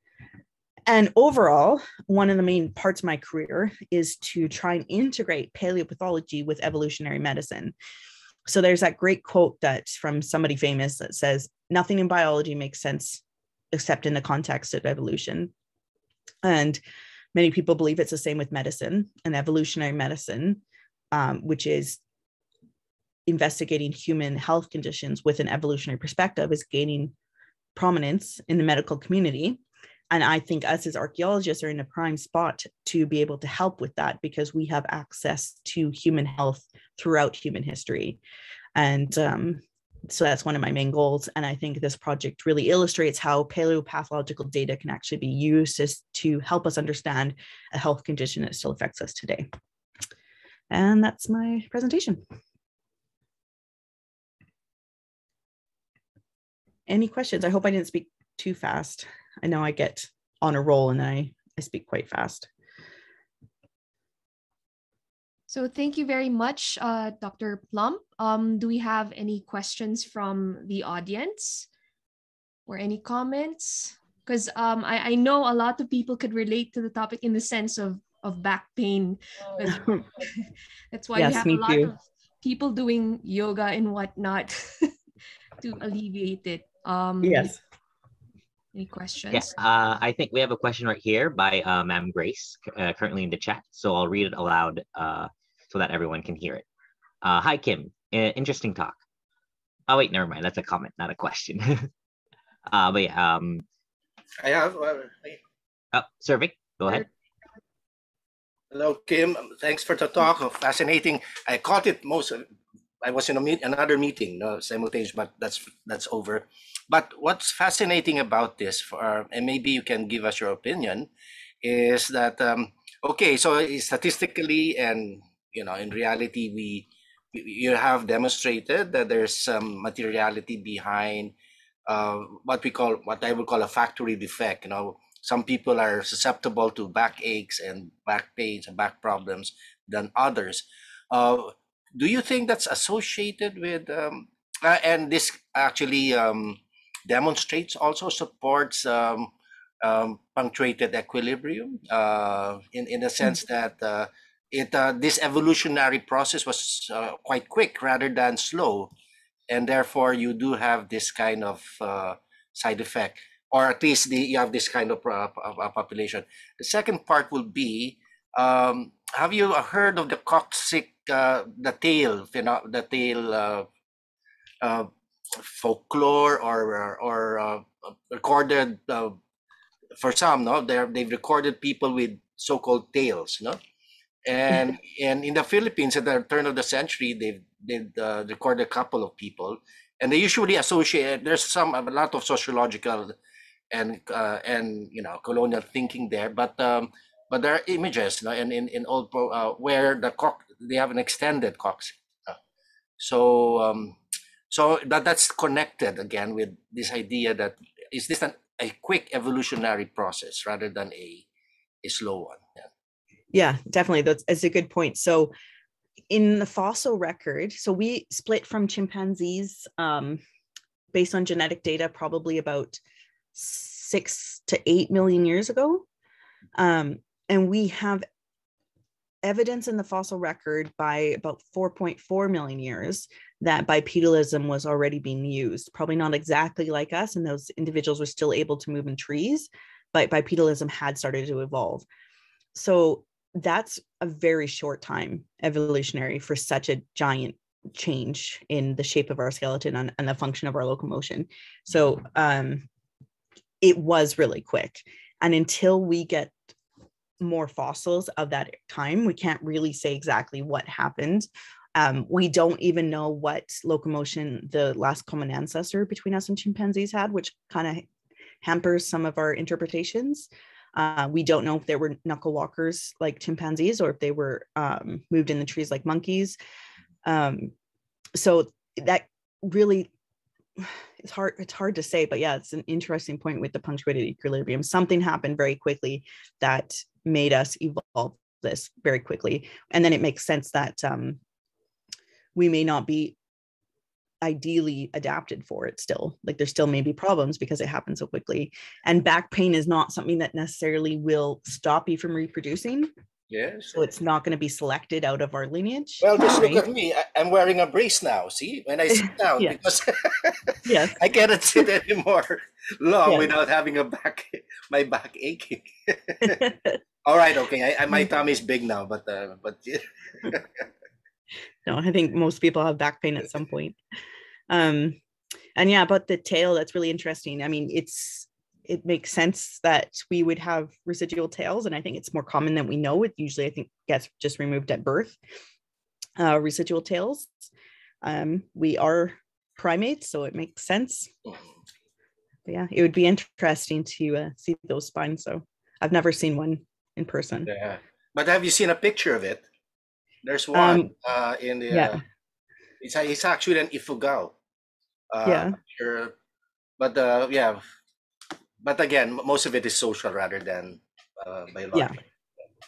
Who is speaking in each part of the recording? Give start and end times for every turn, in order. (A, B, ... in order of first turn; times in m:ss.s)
0:00.9-0:07.7 A
0:08.4-0:15.5 A
0:16.4-0:16.8 A
0:17.3-0:20.6 A
0:21.1-0:22.0 A
0:23.3-0:27.1 A
0:27.7-0:38.2 A
0:38.8-0:49.5 A
0:50.7-0:52.2 A
0:56.9-1:02.5 A
1:05.5-1:11.7 B
1:12.7-1:19.9 B
1:19.6-1:20.0 A
1:20.9-1:24.9 B
1:21.1-1:21.9 A
1:25.6-1:27.6 B
1:27.2-1:27.6 A
1:28.7-1:29.5 B
1:29.3-1:36.6 C
1:37.2-1:39.0 C
1:39.9-1:41.9 C
1:42.7-1:43.6 C
1:44.4-1:45.4 D
1:45.9-1:47.1 C
1:48.7-1:52.4 D
1:53.0-2:01.1 D
2:01.6-2:11.3 D
2:11.9-2:38.9 D
2:39.5-2:53.7 D
2:54.6-2:59.2 D
3:00.0-3:03.6 D
3:04.2-3:13.2 D
3:13.7-3:22.4 D
3:23.0-3:24.0 D
3:24.5-3:31.2 D
3:31.8-3:32.4 D
3:33.3-3:35.3 A
3:36.1-3:40.2 A
3:40.9-3:42.8 A
3:43.3-3:45.9 A
3:46.6-3:48.0 A
3:49.2-4:01.9 A
4:02.6-4:12.7 A
4:13.6-4:16.4 A
4:17.2-4:27.9 A
4:28.4-4:36.4 A
4:37.0-4:37.5 A
4:38.1-4:39.9 A
4:40.6-4:51.2 A
4:52.3-4:53.2 A
4:54.2-5:02.9 A
5:03.3-5:03.8 D
5:03.7-5:06.6 A
5:06.0-5:16.5 D
5:10.6-5:11.0 A
5:17.0-5:20.5 D
5:21.6-5:23.8 A
5:24.5-5:25.0 A
5:25.6-5:35.2 A
5:36.2-5:37.4 A
5:38.0-5:41.1 A
5:42.4-5:47.5 A
5:47.4-5:49.4 D
5:50.2-5:52.0 D
5:50.5-5:50.9 A
5:51.7-5:52.0 A
5:52.8-5:54.4 D
5:55.1-5:56.1 D
5:55.2-5:55.6 A
5:56.8-5:57.6 D
5:58.6-6:02.0 D